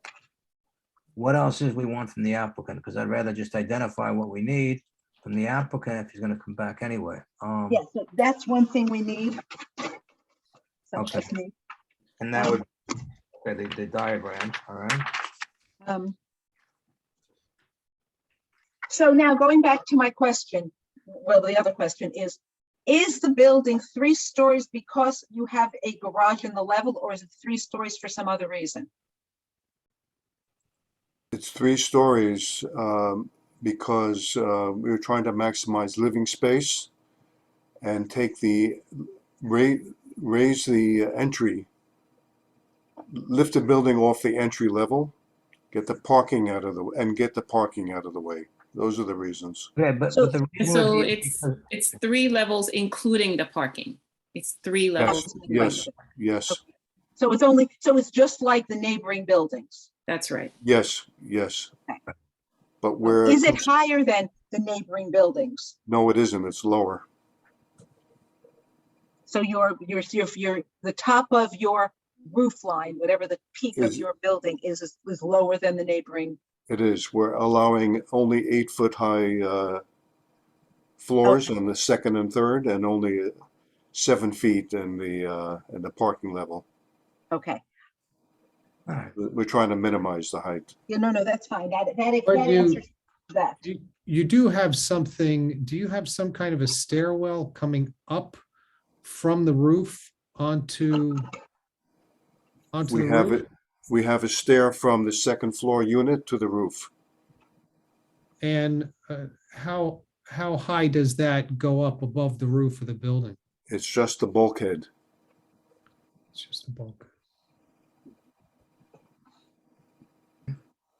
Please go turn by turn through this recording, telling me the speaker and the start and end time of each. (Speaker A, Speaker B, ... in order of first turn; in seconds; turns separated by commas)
Speaker A: 1.1-7.8, Speaker B: 7.7-9.4, Speaker B: 10.9-11.5, Speaker A: 11.0-11.3, Speaker A: 12.2-12.7, Speaker A: 13.4-15.0, Speaker B: 15.8-16.2, Speaker B: 18.9-28.9, Speaker C: 31.3-36.9, Speaker C: 37.8-41.7, Speaker C: 43.1-45.1, Speaker C: 45.7-49.7, Speaker A: 49.8-51.6, Speaker D: 50.6-55.4, Speaker C: 55.0-56.6, Speaker B: 55.0-55.9, Speaker B: 57.2-59.9, Speaker D: 60.1-60.5, Speaker C: 60.6-61.7, Speaker C: 62.8-63.6, Speaker B: 63.0-65.8, Speaker C: 65.9-67.0, Speaker B: 69.3-76.4, Speaker C: 73.8-74.0, Speaker C: 76.7-79.8, Speaker C: 81.0-83.4, Speaker B: 81.2-81.5, Speaker C: 83.9-86.7, Speaker B: 87.3-87.6, Speaker A: 88.9-89.1, Speaker C: 89.2-90.7, Speaker B: 90.9-93.6, Speaker E: 92.3-92.8, Speaker E: 93.6-98.4, Speaker E: 99.0-101.3, Speaker E: 102.7-103.4, Speaker C: 102.9-106.9, Speaker E: 108.4-113.4, Speaker C: 113.7-114.9, Speaker E: 116.3-117.1